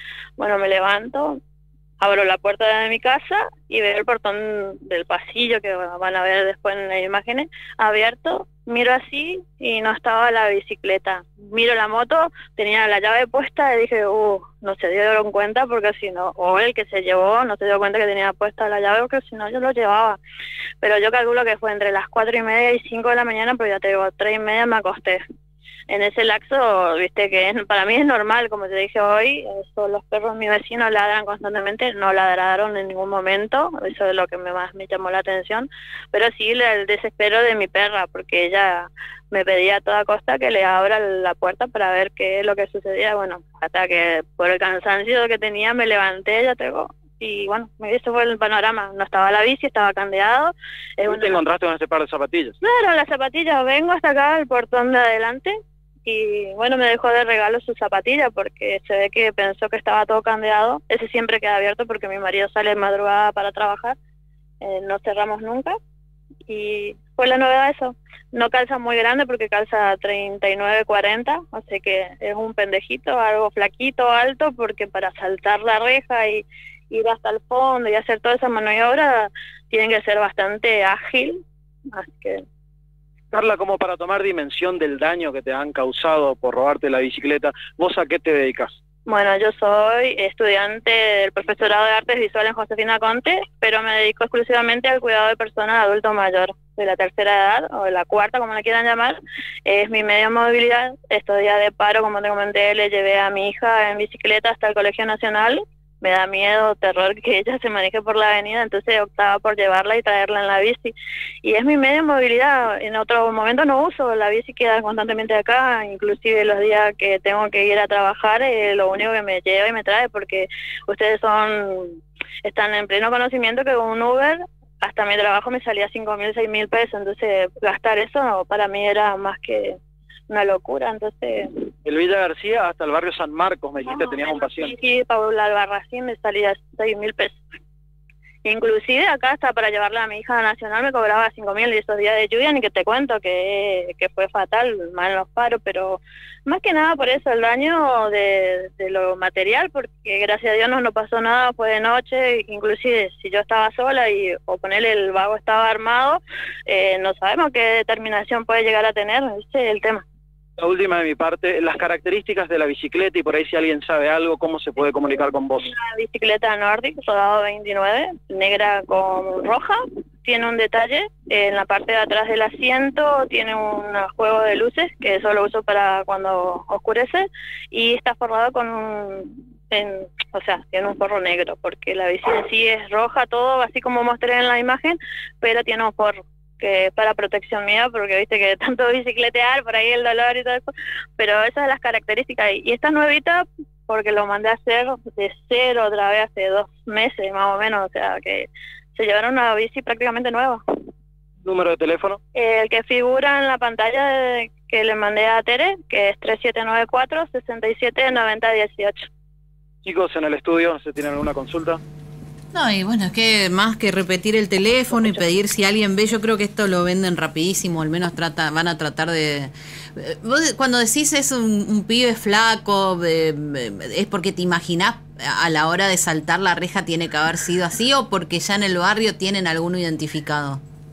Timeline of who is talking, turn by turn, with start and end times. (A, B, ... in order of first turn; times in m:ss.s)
0:00.4-0:01.4 A
0:02.0-0:20.2 A
0:20.8-0:25.2 A
0:25.9-0:51.4 A
0:51.0-0:52.6 B
0:52.6-0:55.5 A
0:56.0-1:04.0 A
1:04.6-1:05.7 A
1:06.5-1:21.4 A
1:21.9-1:22.4 A
1:23.3-1:28.8 B
1:29.0-2:09.8 A
2:10.3-2:11.6 A
2:11.8-2:14.8 B
2:13.9-2:17.4 A
2:18.4-2:40.0 A
2:40.6-2:45.7 B
2:45.6-3:20.6 A
3:21.4-3:22.2 B
3:22.3-3:29.1 A
3:29.8-3:31.8 B
3:32.5-3:50.6 C
3:34.9-3:35.2 A